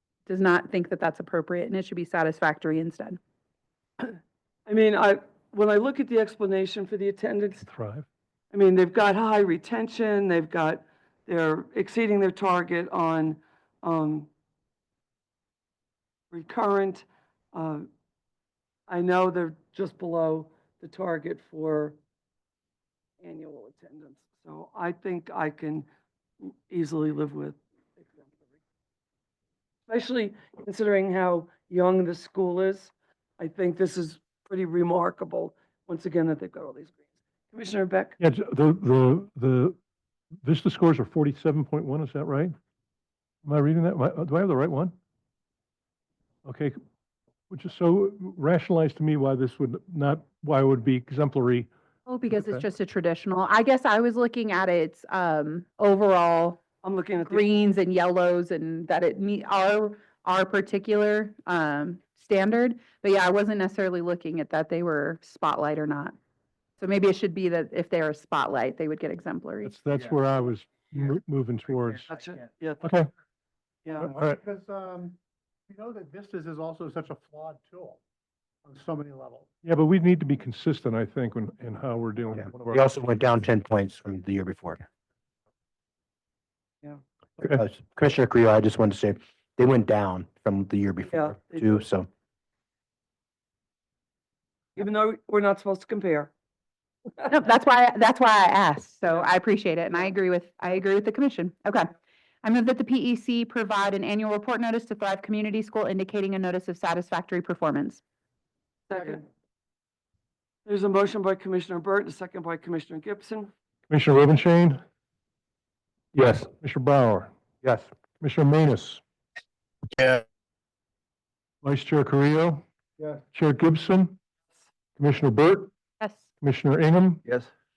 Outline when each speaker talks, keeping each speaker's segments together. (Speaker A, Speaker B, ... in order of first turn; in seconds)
Speaker A: 0.3-3.2, 52.0-56.6, 57.2-66.1, 66.8-69.7, 97.3-108.0, 126.0-126.3
Speaker B: 4.7-7.6, 8.5-14.3, 16.3-17.8, 18.9-22.0, 23.2-25.9, 26.4-28.4, 29.9-38.1, 56.8-57.5, 72.1-72.8, 91.1-91.8, 94.8-96.3, 108.9-109.2, 110.7-113.5
Speaker C: 7.6-8.1, 38.2-39.8, 40.4-42.5, 43.4-44.9, 46.4-46.8, 47.5-51.7, 52.3-52.6, 69.6-72.1, 72.8-73.1, 74.0-74.4, 79.6-83.0, 113.9-114.8, 116.2-117.3, 118.2-119.0, 121.6-122.6, 123.3-124.2, 125.0-125.7, 126.4-127.2
Speaker D: 73.9-75.2, 75.7-78.0, 78.6-79.5, 123.0-123.2
Speaker E: 82.3-84.8, 87.4-92.1, 116.1-116.5